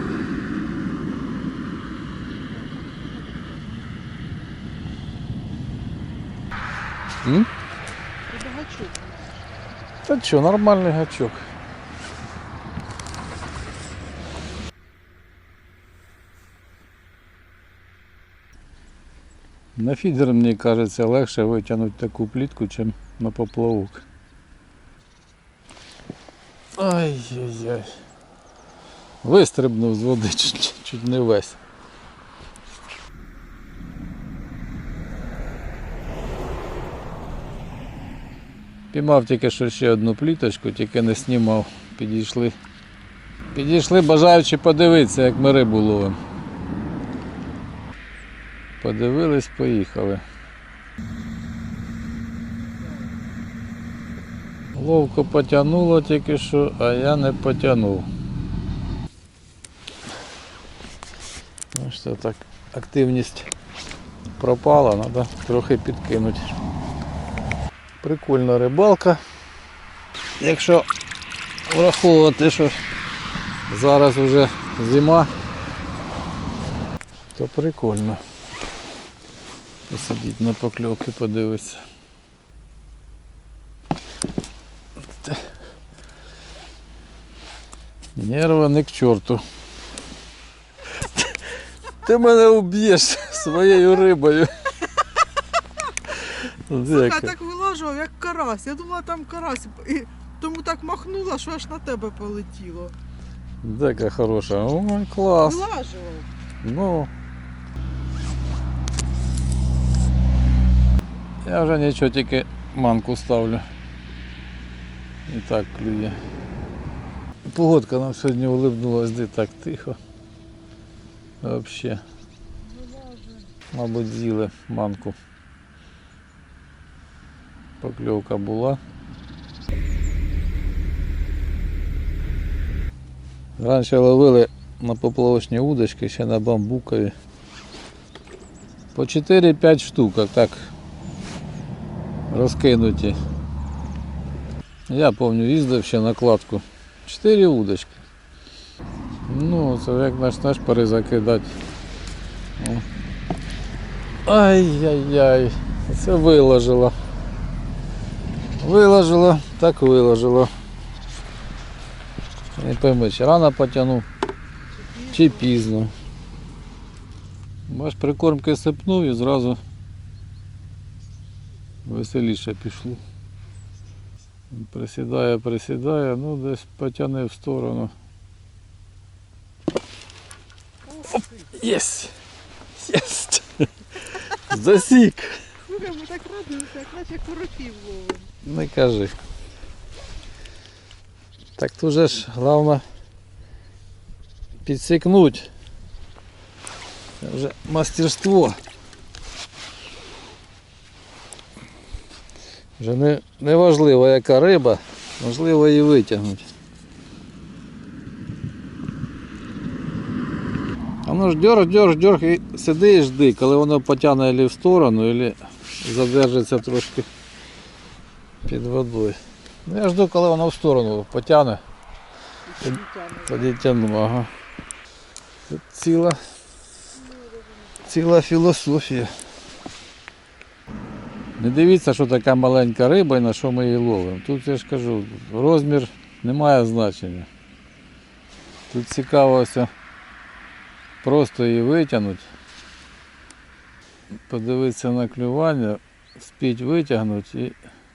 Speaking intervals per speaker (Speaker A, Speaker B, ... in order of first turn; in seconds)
Speaker A: 2.5-3.8, 8.3-9.4, 96.8-102.9, 105.4-106.3, 122.7-123.5, 164.7-165.5, 185.7-188.3, 222.5-223.5, 227.0-227.8
Speaker B: 10.0-11.4, 19.8-24.0, 26.8-27.9, 29.2-31.6, 38.9-42.5, 43.5-46.2, 48.8-50.2, 54.7-58.1, 61.7-63.5, 64.4-66.4, 68.0-69.2, 70.4-70.9, 71.7-72.8, 73.7-75.3, 77.3-78.2, 79.9-81.8, 88.2-89.4, 91.0-91.3, 92.0-94.5, 96.5-97.3, 103.6-105.7, 106.6-107.1, 111.4-113.6, 115.3-116.2, 117.5-120.0, 121.4-122.0, 123.7-125.2, 127.8-128.8, 133.6-137.1, 138.9-140.7, 142.3-143.2, 144.9-148.0, 149.3-151.5, 152.6-152.8, 154.2-156.9, 158.6-160.5, 162.5-164.1, 165.1-165.9, 167.7-169.6, 171.8-173.0, 174.5-177.9, 181.1-182.1, 182.8-185.4, 188.4-189.1, 191.6-192.8, 194.6-195.5, 197.2-198.6, 202.8-206.5, 211.0-217.1, 218.4-221.6, 222.6-224.3, 225.5-226.2, 227.8-229.1, 231.4-237.3, 238.7-239.7, 241.0-242.3, 244.3-247.6